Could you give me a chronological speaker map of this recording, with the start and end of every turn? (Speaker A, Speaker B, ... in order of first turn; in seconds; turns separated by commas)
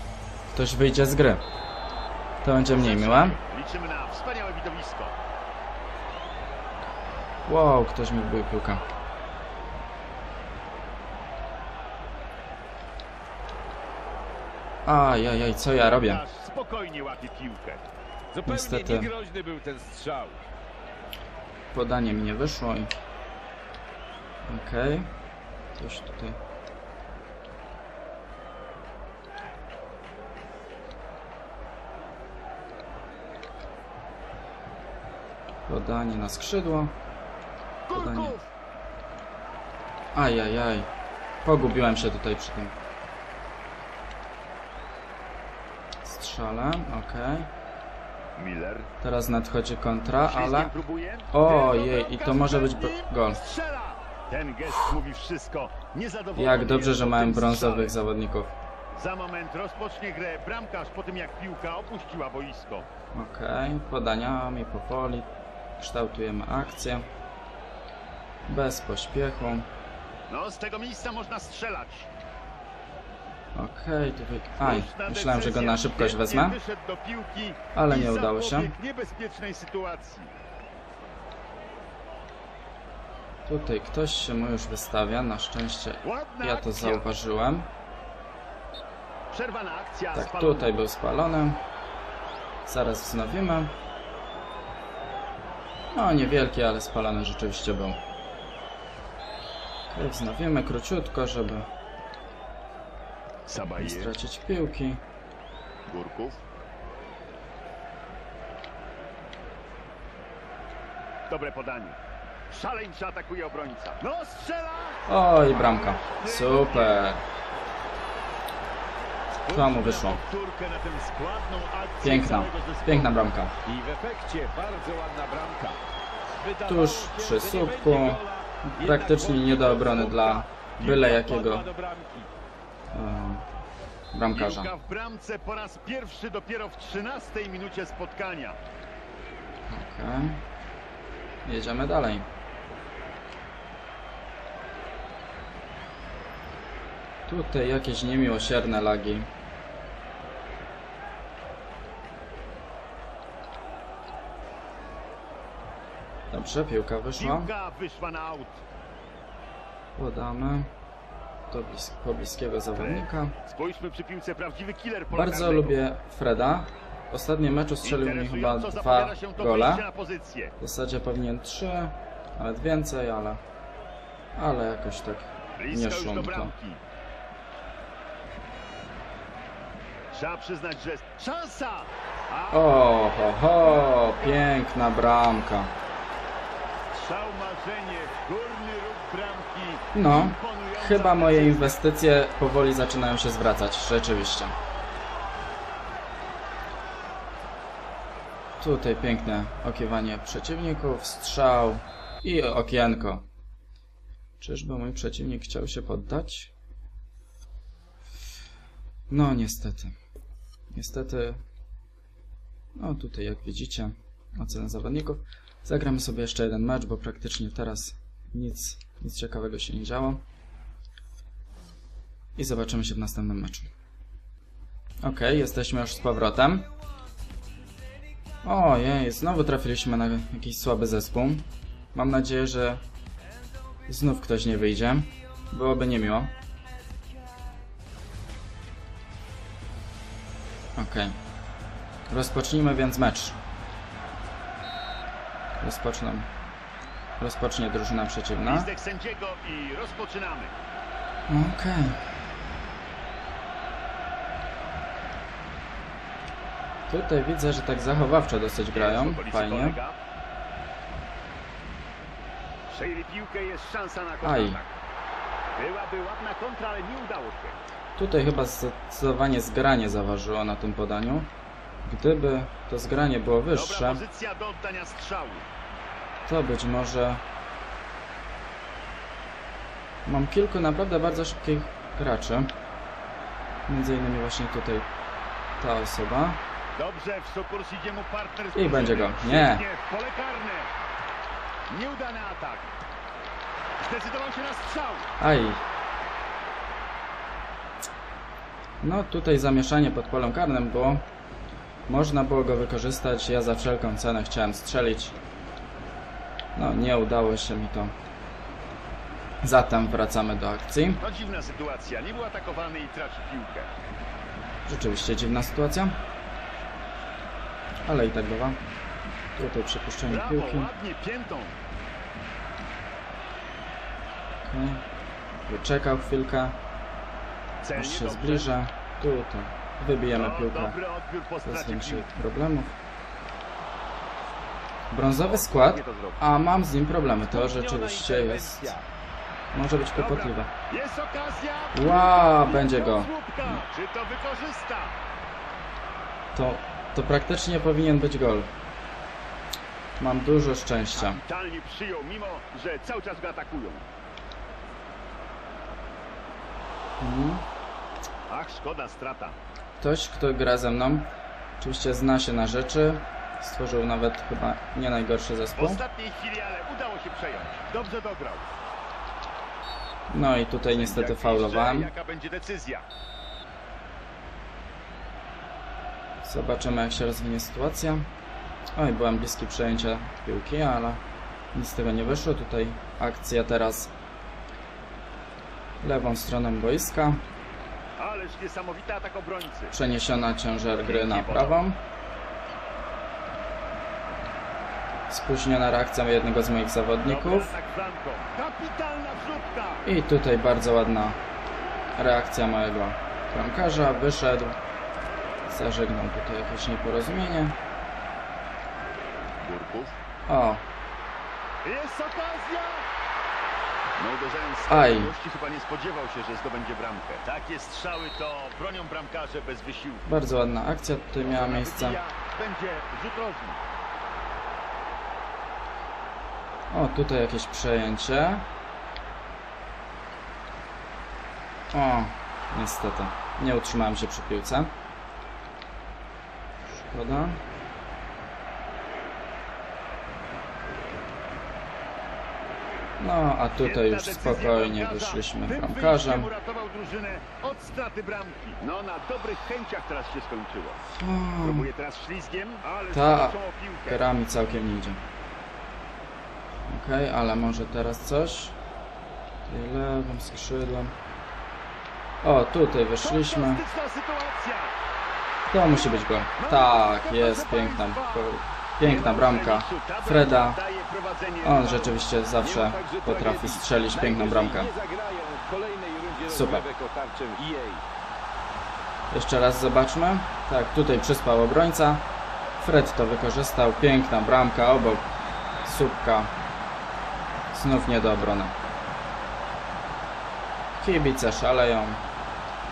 Speaker A: 0.5-1.4, Speaker A: 2.4-3.4, Speaker B: 2.6-5.2, Speaker A: 7.5-8.8, Speaker A: 14.8-16.2, Speaker B: 15.8-17.8, Speaker C: 18.3-20.4, Speaker A: 18.5-19.1, Speaker A: 21.7-22.9, Speaker A: 24.5-25.1, Speaker A: 25.8-26.4, Speaker A: 35.7-37.0, Speaker B: 37.9-38.5, Speaker A: 37.9-38.4, Speaker A: 40.1-40.9, Speaker A: 41.4-42.8, Speaker A: 46.0-47.5, Speaker B: 48.4-48.9, Speaker A: 49.0-50.7, Speaker B: 50.2-58.0, Speaker A: 51.3-53.4, Speaker A: 56.4-58.6, Speaker B: 58.9-62.9, Speaker A: 63.1-67.1, Speaker A: 68.5-69.7, Speaker B: 70.3-72.1, Speaker A: 73.5-76.6, Speaker B: 74.6-80.3, Speaker A: 77.7-78.7, Speaker A: 83.5-87.7, Speaker B: 86.0-87.1, Speaker B: 89.3-90.8, Speaker A: 90.1-91.6, Speaker A: 92.7-93.7, Speaker A: 95.9-98.0, Speaker A: 99.9-101.7, Speaker B: 103.5-104.1, Speaker A: 103.8-105.0, Speaker B: 105.9-106.4, Speaker B: 111.3-112.0, Speaker B: 112.5-117.0, Speaker A: 115.1-117.2, Speaker B: 119.4-123.3, Speaker A: 119.5-120.2, Speaker A: 122.0-123.5, Speaker C: 123.7-125.8, Speaker C: 126.4-132.3, Speaker A: 126.7-131.7, Speaker A: 132.9-133.4, Speaker A: 134.1-134.7, Speaker B: 134.3-138.6, Speaker A: 139.7-140.4, Speaker A: 141.4-142.3, Speaker A: 147.3-149.3, Speaker A: 156.3-157.5, Speaker B: 157.2-158.6, Speaker A: 160.0-160.7, Speaker A: 161.5-163.3, Speaker B: 162.8-165.8, Speaker A: 165.1-169.9, Speaker B: 167.8-170.6, Speaker A: 170.6-173.4, Speaker A: 174.3-176.5, Speaker B: 175.6-176.8, Speaker B: 180.1-184.5, Speaker A: 182.5-185.7, Speaker B: 186.9-191.9, Speaker A: 189.9-194.6, Speaker A: 198.6-203.3, Speaker A: 204.4-206.5, Speaker A: 209.1-210.0, Speaker A: 210.7-211.4, Speaker A: 212.8-220.2, Speaker A: 222.4-223.7, Speaker A: 225.0-226.7, Speaker A: 228.4-232.8, Speaker A: 233.9-236.3, Speaker A: 240.8-241.2, Speaker A: 242.1-243.4, Speaker A: 245.6-246.3, Speaker A: 247.2-248.7, Speaker B: 248.4-250.6, Speaker A: 251.3-252.0, Speaker A: 256.9-259.8, Speaker B: 258.7-260.0, Speaker B: 262.7-264.8, Speaker A: 264.2-264.6, Speaker B: 265.6-267.6, Speaker A: 268.0-271.3, Speaker A: 271.9-274.0, Speaker B: 273.5-275.5, Speaker A: 276.3-277.2, Speaker A: 280.1-282.5, Speaker A: 283.7-284.9, Speaker A: 285.6-286.4, Speaker B: 286.8-290.7, Speaker A: 288.5-289.6, Speaker B: 291.7-292.8, Speaker B: 293.8-295.1, Speaker A: 295.2-295.6, Speaker A: 298.8-301.1, Speaker A: 301.9-305.2, Speaker A: 306.6-307.9, Speaker A: 309.4-311.0, Speaker B: 311.0-313.7, Speaker A: 314.6-316.0, Speaker A: 317.9-318.6, Speaker A: 319.4-320.7, Speaker B: 320.1-321.6, Speaker A: 324.4-324.8, Speaker A: 325.5-326.6, Speaker B: 327.6-328.5, Speaker A: 327.8-330.8, Speaker B: 330.1-332.1, Speaker A: 331.5-332.8, Speaker A: 334.9-338.8, Speaker B: 335.1-336.2, Speaker C: 337.3-338.9, Speaker A: 339.5-340.5, Speaker B: 340.0-345.0, Speaker A: 341.8-343.6, Speaker A: 346.3-348.5, Speaker A: 350.0-351.2, Speaker B: 350.9-353.9, Speaker A: 357.0-357.4, Speaker B: 358.3-359.4, Speaker A: 359.8-365.8, Speaker B: 365.6-368.5, Speaker A: 370.1-371.9, Speaker B: 370.7-372.9, Speaker A: 376.2-378.1, Speaker A: 378.8-381.0, Speaker A: 381.5-383.9, Speaker A: 385.8-387.2, Speaker B: 388.0-389.8, Speaker A: 389.7-391.8, Speaker B: 390.8-391.6, Speaker A: 395.1-397.5, Speaker B: 397.0-399.9, Speaker A: 399.8-401.2, Speaker A: 402.0-404.6, Speaker A: 405.5-407.6, Speaker B: 409.4-409.9, Speaker A: 410.3-410.6, Speaker B: 411.6-412.9, Speaker B: 414.0-420.1, Speaker A: 414.7-415.1, Speaker A: 420.1-422.0, Speaker B: 421.3-423.6, Speaker A: 426.7-428.5, Speaker A: 431.7-434.7, Speaker A: 436.7-437.4, Speaker A: 443.0-446.3, Speaker B: 443.6-450.8, Speaker A: 450.9-451.7, Speaker B: 451.4-454.0, Speaker A: 452.9-455.0, Speaker A: 456.7-458.6, Speaker A: 459.5-460.9, Speaker A: 462.2-463.6, Speaker B: 463.0-464.8, Speaker A: 465.5-470.6, Speaker B: 465.7-472.0, Speaker A: 471.4-474.7, Speaker C: 472.4-477.8, Speaker A: 476.3-476.7, Speaker A: 479.1-482.0, Speaker A: 482.6-485.1, Speaker A: 485.6-486.3, Speaker A: 487.5-488.6, Speaker A: 490.8-492.0